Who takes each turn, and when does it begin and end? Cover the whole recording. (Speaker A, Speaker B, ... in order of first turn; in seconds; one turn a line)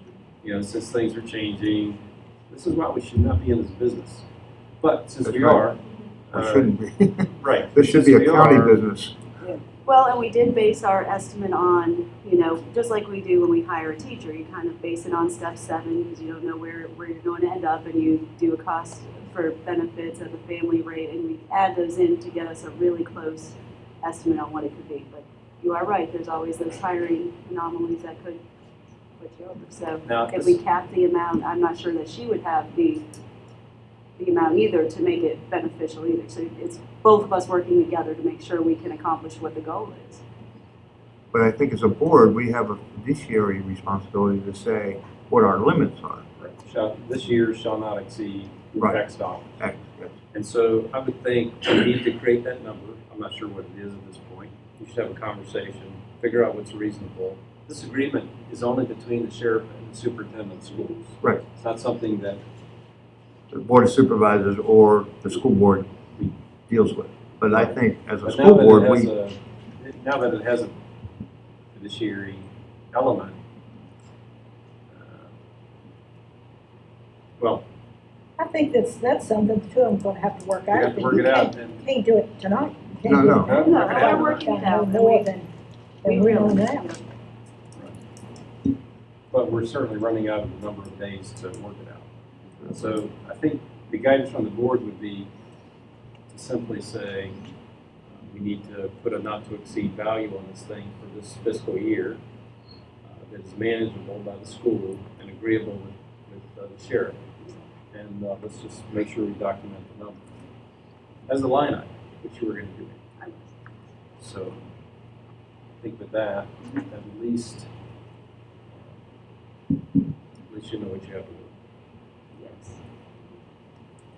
Speaker A: 0.4-4.3
Speaker A: 4.8-6.7
Speaker B: 5.2-5.7
Speaker B: 6.3-9.2
Speaker A: 7.4-8.8
Speaker C: 9.9-28.4
Speaker C: 29.2-33.0
Speaker A: 30.1-30.6
Speaker C: 34.2-40.2
Speaker B: 41.3-46.2
Speaker A: 46.4-49.6
Speaker B: 48.8-49.0
Speaker B: 49.5-50.2
Speaker A: 50.3-62.4
Speaker B: 63.5-65.9
Speaker B: 66.7-69.1
Speaker A: 67.5-70.7
Speaker A: 71.7-73.4
Speaker A: 74.9-75.3
Speaker A: 77.4-77.7
Speaker D: 78.4-85.5
Speaker A: 80.7-81.9
Speaker B: 83.0-83.5
Speaker A: 83.3-84.6
Speaker C: 83.6-85.3
Speaker D: 86.0-86.9
Speaker C: 86.0-87.0
Speaker A: 89.3-92.1
Speaker A: 92.6-95.3
Speaker A: 96.3-97.4
Speaker A: 98.2-102.2
Speaker A: 103.1-107.2
Speaker A: 107.9-110.2
Speaker A: 111.3-113.0
Speaker C: 113.2-113.6
Speaker A: 114.2-114.6
Speaker A: 115.8-117.7
Speaker A: 120.5-121.5
Speaker C: 122.3-122.8